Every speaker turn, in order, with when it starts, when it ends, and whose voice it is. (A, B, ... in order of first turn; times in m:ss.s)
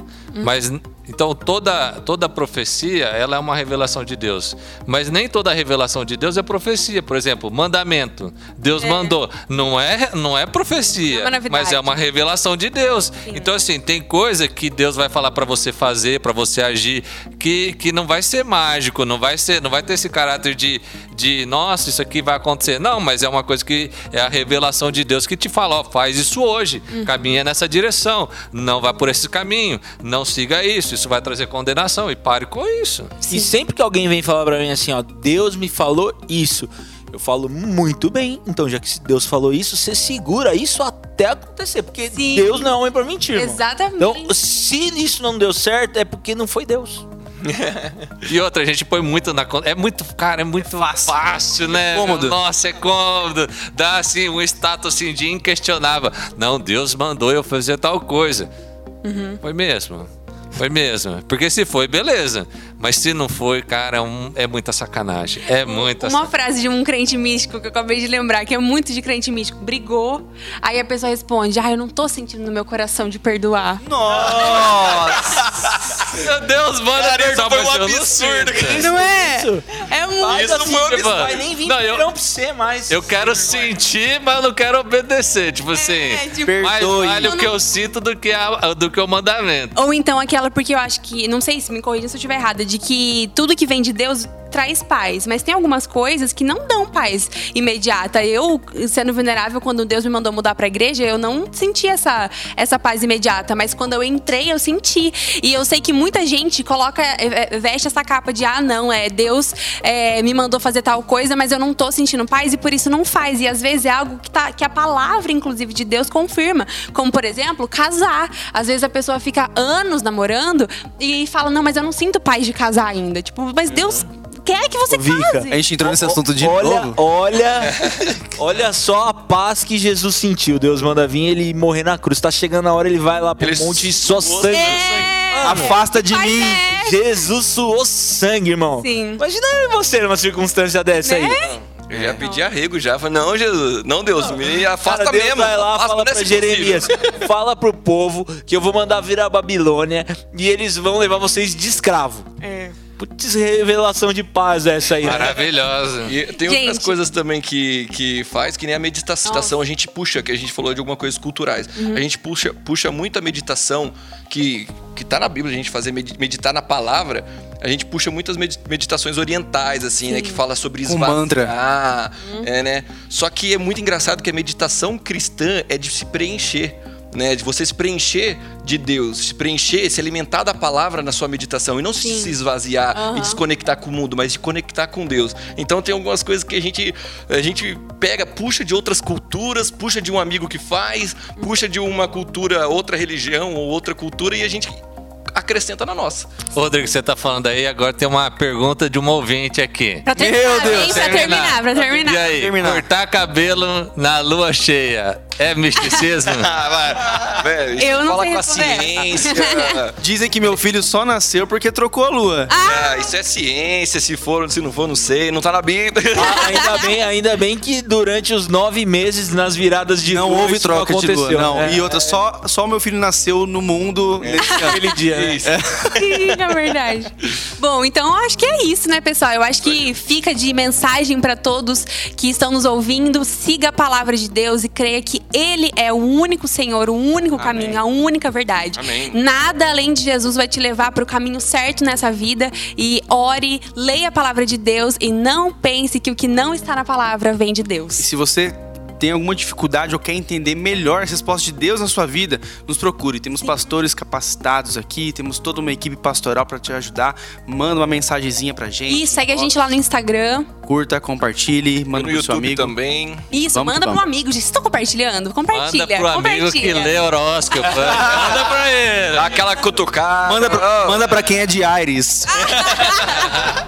0:00.4-0:33.2 A
0:08.8-0:09.2 B
0:11.1-0:11.9 B
0:13.3-0:13.5 B
0:33.2-0:33.6 B
0:33.3-0:47.0 C
0:42.1-0:42.7 B
0:43.4-0:44.3 B
0:47.4-0:48.1 D
0:48.2-0:58.5 A
0:50.8-0:51.2 E
0:51.7-0:52.4 E
0:59.0-0:59.4 B
0:59.4-1:06.3 A
1:05.6-1:13.8 B
1:13.8-1:15.2 E
1:14.3-1:16.3 D
1:14.4-1:14.9 A
1:16.1-1:18.9 A
1:17.0-1:19.0 D
1:18.7-1:23.7 C
1:18.8-1:20.8 B
1:20.2-1:21.5 D
1:20.9-1:22.1 A
1:22.9-1:29.8 A
1:25.8-1:26.7 B
1:26.4-1:27.4 E
1:27.2-1:27.6 B
1:29.8-2:05.6 B
2:03.7-2:04.0 D
2:04.9-2:15.8 C
2:05.5-2:07.0 E
2:07.8-2:08.2 D
2:13.4-2:15.2 D
2:14.5-2:17.2 B
2:15.4-2:16.7 E
2:16.7-2:21.4 C
2:18.8-2:19.2 B
2:21.0-2:21.5 B
2:21.4-2:27.2 D
2:21.9-2:22.2 E
2:24.2-2:32.3 C
2:32.4-2:32.8 B
2:33.0-2:35.4 C
2:35.0-2:36.1 A
2:35.1-2:35.4 D
2:36.0-3:14.8 D
2:36.4-2:37.0 B
2:39.3-2:39.5 B
2:41.8-2:42.0 B
2:50.1-2:50.4 B
2:50.9-2:51.6 E
2:52.2-2:52.5 B
3:02.0-3:02.3 B
3:02.9-3:03.4 B
3:15.3-3:16.4 D
3:16.5-3:26.5 A
3:20.0-3:22.4 B
3:20.1-3:22.8 E
3:26.2-3:30.0 D
3:27.8-3:29.8 B
3:30.0-3:32.5 E
3:32.5-3:33.1 B
3:32.6-3:36.5 D
3:36.1-3:42.2 C
3:36.2-3:37.0 B
3:40.1-3:46.4 E
3:44.2-3:46.0 D
3:44.5-3:44.8 B
3:44.6-3:45.5 C
3:46.0-4:08.1 B
3:49.6-3:49.9 D
3:57.4-3:57.8 D
3:58.8-3:59.2 D
4:08.0-4:19.6 E
4:18.9-4:20.5 B
4:20.7-4:22.8 E
4:21.9-4:23.3 D
4:23.3-4:27.0 B
4:23.5-4:24.0 E
4:25.5-4:29.4 A
4:27.9-4:28.5 D
4:29.1-4:31.3 D
4:30.2-4:32.4 E
4:32.3-4:33.5 B
4:32.4-4:33.4 D